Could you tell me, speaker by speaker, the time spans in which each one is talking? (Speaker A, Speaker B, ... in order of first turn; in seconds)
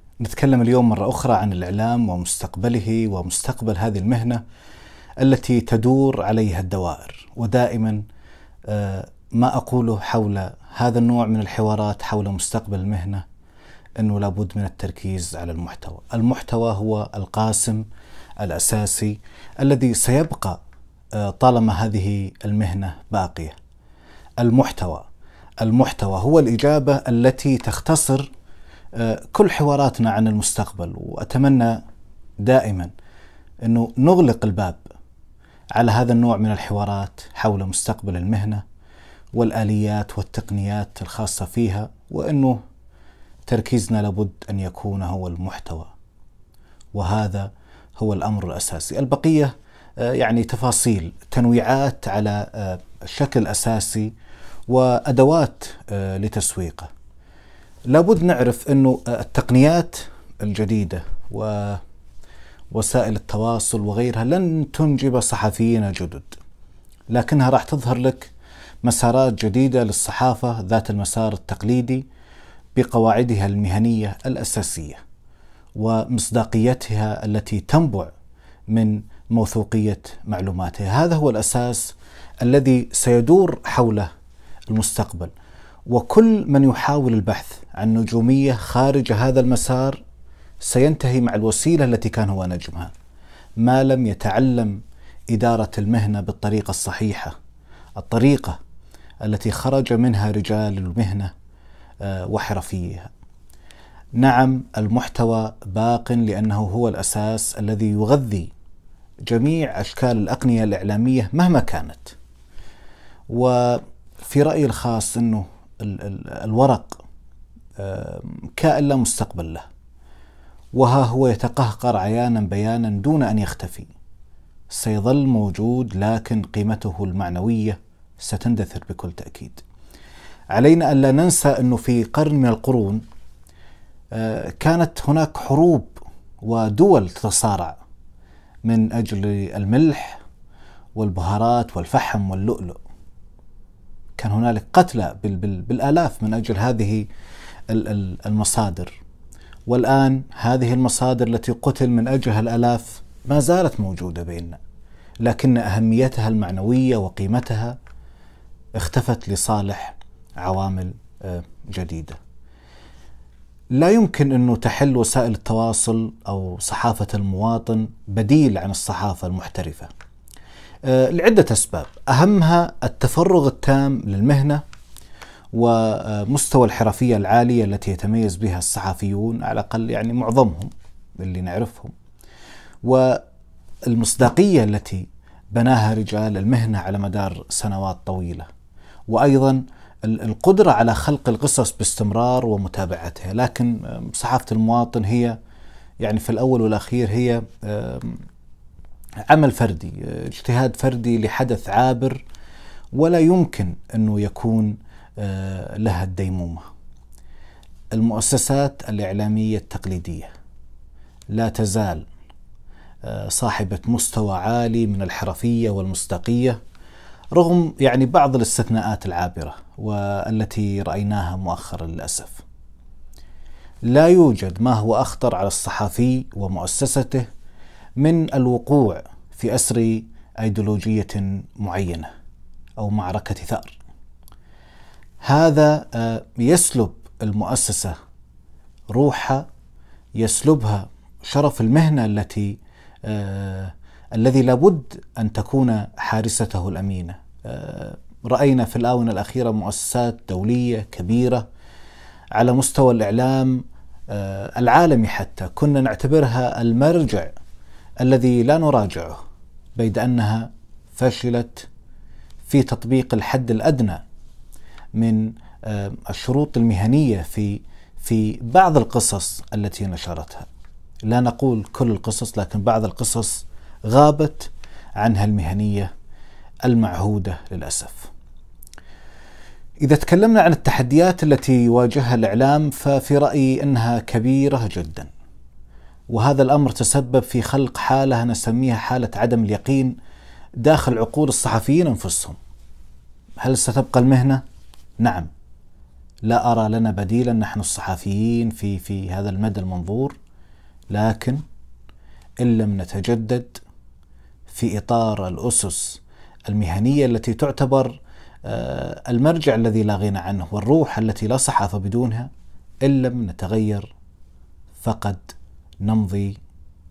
Speaker A: 0.2-4.4, 5.2-8.0, 8.7-13.2, 14.0-17.9, 18.4-20.6, 21.2-23.6, 24.4-25.1, 25.6-28.3, 29.0-31.8, 32.4-32.9, 33.6-34.8, 35.8-38.6, 39.3-42.6, 43.5-45.9, 47.0-54.1, 54.7-56.9, 57.9-61.8, 62.7-66.4, 67.1-68.3, 68.8-72.0, 72.8-75.0, 75.8-78.1, 78.7-84.1, 84.7-85.3, 85.9-90.0, 90.6-92.9, 93.6-94.8, 95.3-97.3, 98.0-98.6, 99.2-101.3, 102.0-103.1, 104.2-108.5, 109.3-112.2, 113.3-117.0, 117.8-119.7, 120.7-123.9, 124.7-129.6, 130.5-133.0, 134.2-137.8, 138.7-140.2, 140.9-142.8, 144.2-147.1, 147.7-149.0, 149.7-154.6, 155.2-157.8, 158.8-162.2, 163.8-169.9, 170.9-174.6, 175.5-181.9, 182.8-183.2, 183.9-188.5, 189.1-195.4, 196.0-198.2, 199.3-202.2, 202.9-206.6, 207.9-210.3, 211.3-212.1, 213.0-216.6, 217.3-222.4, 223.9-227.3, 228.0-232.1, 232.8-233.8, 235.2-237.9, 238.9-239.4, 240.2-251.4, 252.4-257.4, 258.0-259.2, 259.8-261.7, 262.4-264.0, 264.9-270.5, 271.1-275.9, 276.7-278.1, 279.9-285.1, 286.1-289.9, 290.6-292.4, 293.4-294.4, 295.0-295.3, 296.2-300.2, 300.9-301.4, 302.4-303.6, 304.5-312.3, 312.8-313.9, 314.8-316.4